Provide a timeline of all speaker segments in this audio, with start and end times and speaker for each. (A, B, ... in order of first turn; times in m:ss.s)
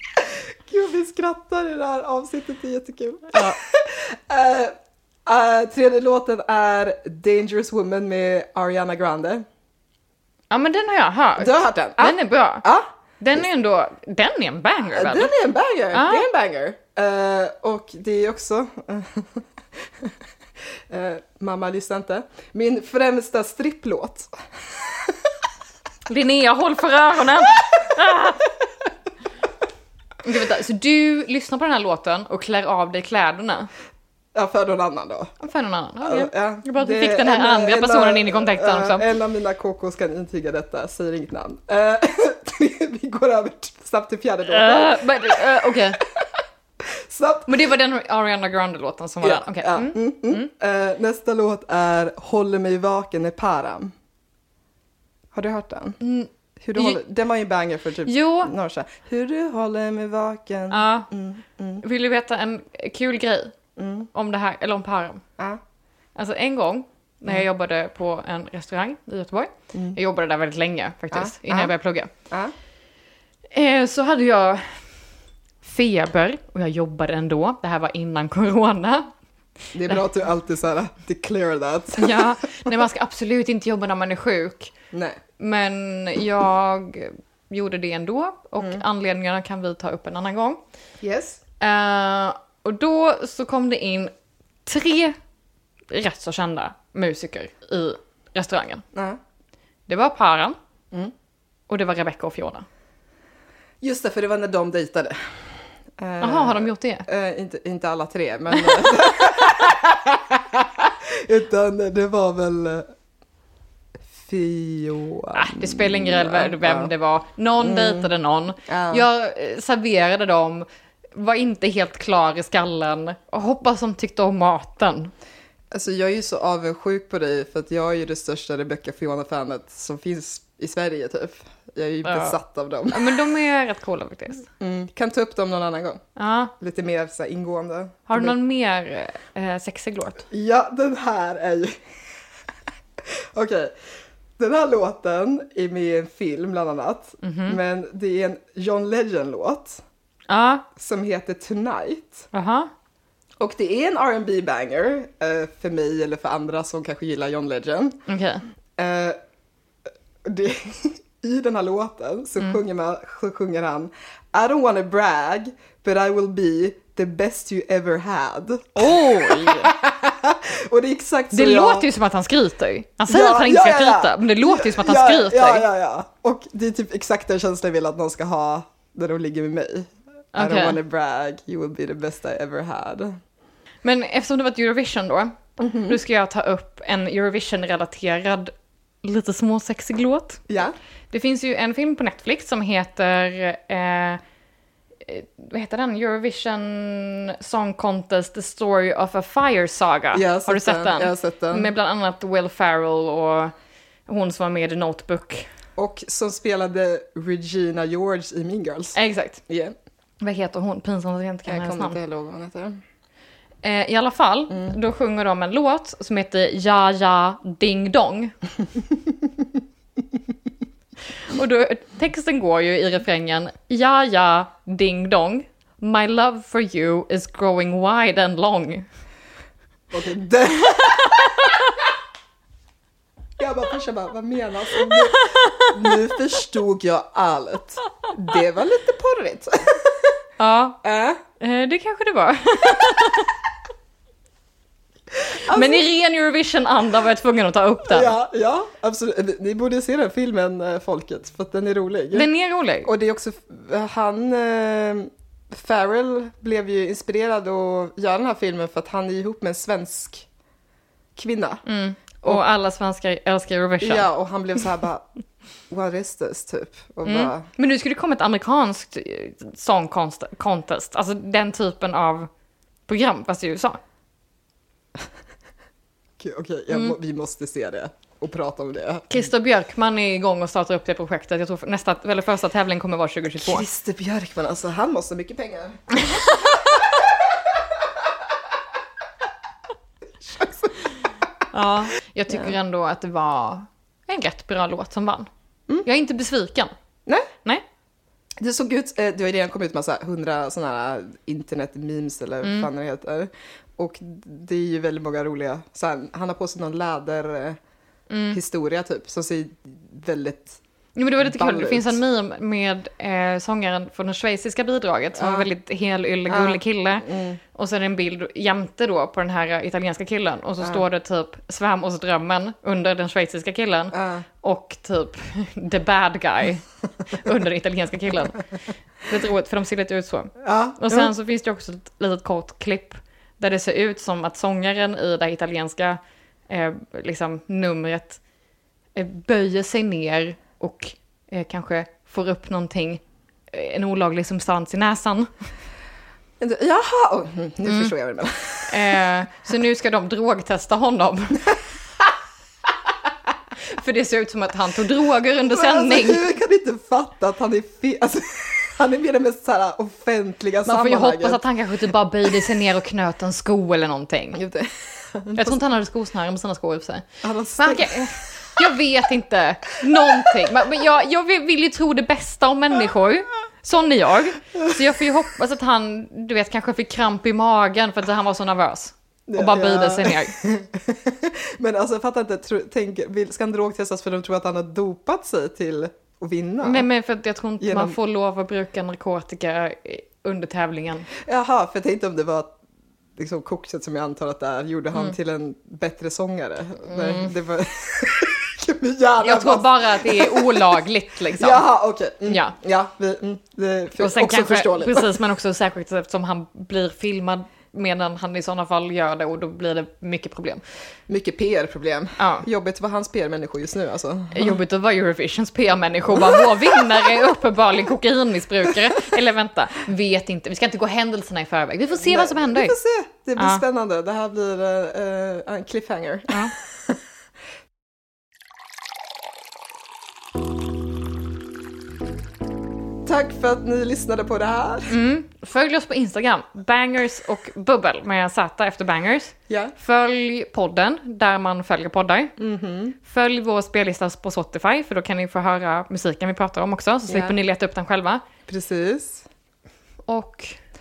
0:00.2-0:04.7 A
0:05.3-0:09.4 A
0:10.5-0:12.6 B
0:11.4-0:12.9 A
0:13.2-0:15.3 B
0:14.9-0:19.4 A
0:15.9-0:16.2 B
0:20.9-0:24.3 A
0:24.8-0:25.2 A
0:26.1-0:28.4 B
0:30.2-0:33.7 B
0:34.4-0:35.3 A
0:35.4-0:39.0 B
0:36.0-0:45.2 A
0:44.5-0:46.0 B
0:46.9-0:47.6 A
0:47.5-0:50.5 B
0:49.2-0:53.9 A
0:55.3-0:56.0 A
0:56.0-0:57.0 B
0:56.6-1:01.8 A
0:58.0-0:58.5 B
1:00.7-1:01.1 B
1:01.8-1:03.6 B
1:03.8-1:04.1 A
1:04.1-1:05.2 B
1:06.2-1:12.1 B
1:11.1-1:11.7 A
1:12.2-1:12.5 A
1:13.5-1:14.8 B
1:15.6-1:19.1 B
1:19.7-1:22.7 A
1:22.0-1:24.7 B
1:24.9-1:25.2 A
1:25.4-1:30.6 B
1:31.0-1:31.4 A
1:31.6-1:34.1 B
1:34.7-1:35.2 B
1:35.9-1:38.8 B
1:38.9-1:39.2 A
1:39.9-1:40.6 B
1:41.7-1:42.7 B
1:43.8-1:45.2 A
1:46.0-1:52.9 A
1:46.2-1:47.1 B
1:54.1-1:56.9 A
1:55.4-2:05.1 B
1:57.6-1:58.1 A
1:58.7-1:59.1 A
2:05.7-2:13.2 A
2:12.0-2:12.4 B
2:12.9-2:14.5 B
2:14.6-2:16.0 A
2:16.2-2:16.5 B
2:16.6-2:18.4 A
2:18.1-2:20.3 B
2:20.3-2:21.8 A
2:23.3-2:23.7 A
2:24.4-2:29.8 A
2:27.2-2:27.6 B
2:30.3-2:30.7 B
2:30.8-2:32.3 A
2:32.3-2:32.7 B
2:33.4-2:38.0 A
2:38.1-2:38.4 B
2:38.8-2:39.2 A
2:40.2-2:51.9 A
2:48.8-2:49.7 B
2:51.3-2:55.6 B
2:53.1-3:03.2 A
3:00.4-3:00.8 B
3:03.8-3:10.4 B
3:05.6-3:06.0 A
3:10.5-3:10.8 A
3:11.1-3:14.2 B
3:15.0-3:23.5 B
3:20.1-3:21.7 A
3:24.1-3:25.5 B
3:25.8-3:29.0 A
3:29.0-3:29.4 B
3:29.5-3:29.8 A
3:30.2-3:32.0 B
3:31.5-3:32.8 A
3:33.6-3:38.3 B
3:34.5-3:34.8 A
3:41.2-3:48.9 B
3:49.9-3:51.6 A
3:51.2-3:51.5 B
3:53.4-4:00.2 A
3:54.8-3:55.9 B
4:00.4-4:00.8 B
4:00.8-4:01.2 A
4:01.4-4:03.3 B
4:05.3-4:05.8 A
4:05.5-4:08.1 B
4:07.9-4:12.3 A
4:12.1-4:12.9 B
4:12.8-4:20.3 A
4:21.2-4:21.6 A
4:21.6-4:24.1 B
4:23.8-4:25.1 A
4:25.7-4:27.5 A
4:27.0-4:32.3 B
4:32.9-4:33.8 B
4:36.2-4:39.2 A
4:36.7-4:37.0 B
4:39.1-4:43.6 B
4:43.4-4:46.0 A
4:46.0-4:46.7 B
4:50.4-4:50.6 A
4:51.5-4:55.3 B
4:55.8-4:56.7 B
4:58.4-5:07.6 A
5:02.4-5:02.7 B
5:08.1-5:08.4 B
5:08.3-5:10.6 A
5:11.0-5:28.4 B
5:11.2-5:12.0 A
5:15.2-5:15.5 A
5:16.3-5:17.4 A
5:23.9-5:24.3 A
5:29.0-5:38.2 B
5:30.4-5:31.1 A
5:39.0-5:45.3 B
5:46.4-5:49.0 A
5:48.7-5:51.5 B
5:53.7-5:56.3 B
5:55.5-6:01.4 A
6:00.7-6:04.4 B
6:04.4-6:05.6 A
6:05.4-6:07.1 B
6:07.2-6:08.5 A
6:07.6-6:20.4 B
6:19.3-6:26.9 A
6:26.6-6:31.1 B
6:27.6-6:28.0 A
6:31.2-6:32.6 A
6:33.2-6:40.8 A
6:36.9-6:37.4 B
6:39.2-6:41.6 B
6:41.4-6:45.2 A
6:42.2-6:42.6 B
6:44.0-6:50.6 B
6:51.1-6:54.6 A
6:52.2-6:52.5 B
6:54.3-7:02.8 B
6:56.2-6:56.8 A
7:02.1-7:06.9 A
7:03.4-7:03.6 B
7:13.1-7:15.0 A
7:14.9-7:22.3 B
7:19.5-7:19.7 A
7:22.4-7:23.0 A
7:23.0-7:28.2 B
7:27.1-7:27.4 A
7:28.5-7:29.3 A
7:30.1-7:30.6 B